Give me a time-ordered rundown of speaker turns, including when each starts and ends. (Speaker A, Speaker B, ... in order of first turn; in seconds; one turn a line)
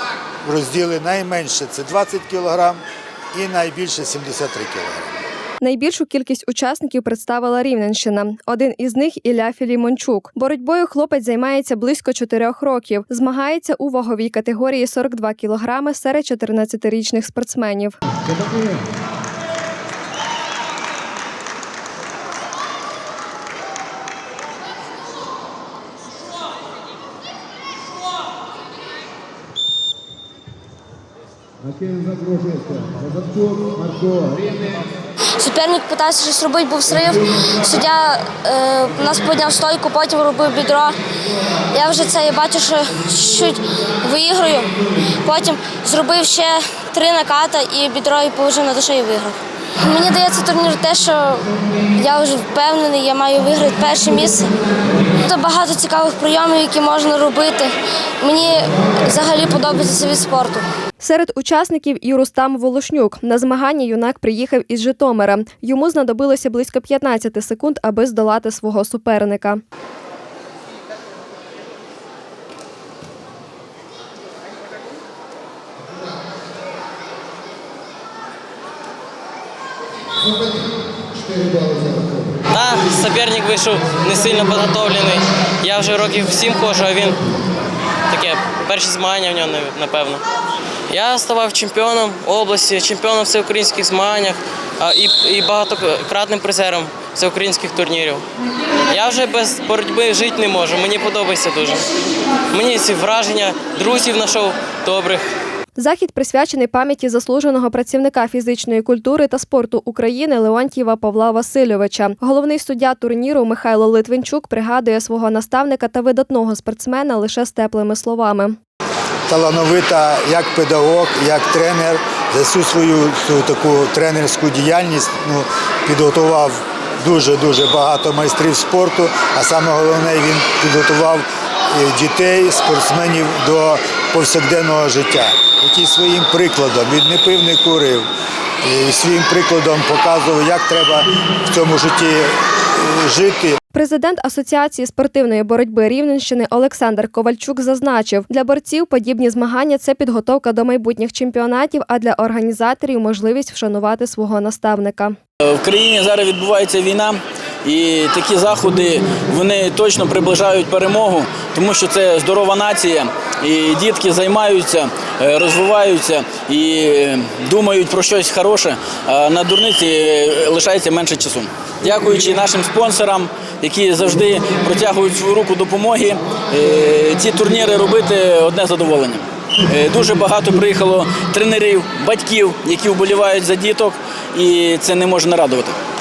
Speaker A: 0.5-2.8
Speaker A: 3.3-5.2
Speaker B: 5.6-18.0
Speaker A: 31.7-34.6
Speaker C: 35.4-41.0
Speaker C: 41.7-54.5
Speaker C: 55.1-60.7
Speaker B: 61.0-69.6
Speaker D: 82.5-87.2
Speaker D: 88.1-90.2
Speaker D: 90.9-98.3
Speaker D: 98.9-101.9
Speaker D: 102.5-105.2
Speaker B: 105.8-118.6
Speaker A: 119.3-138.1
Speaker A: 138.6-143.6
Speaker B: 143.7-155.2
Speaker E: 155.5-185.8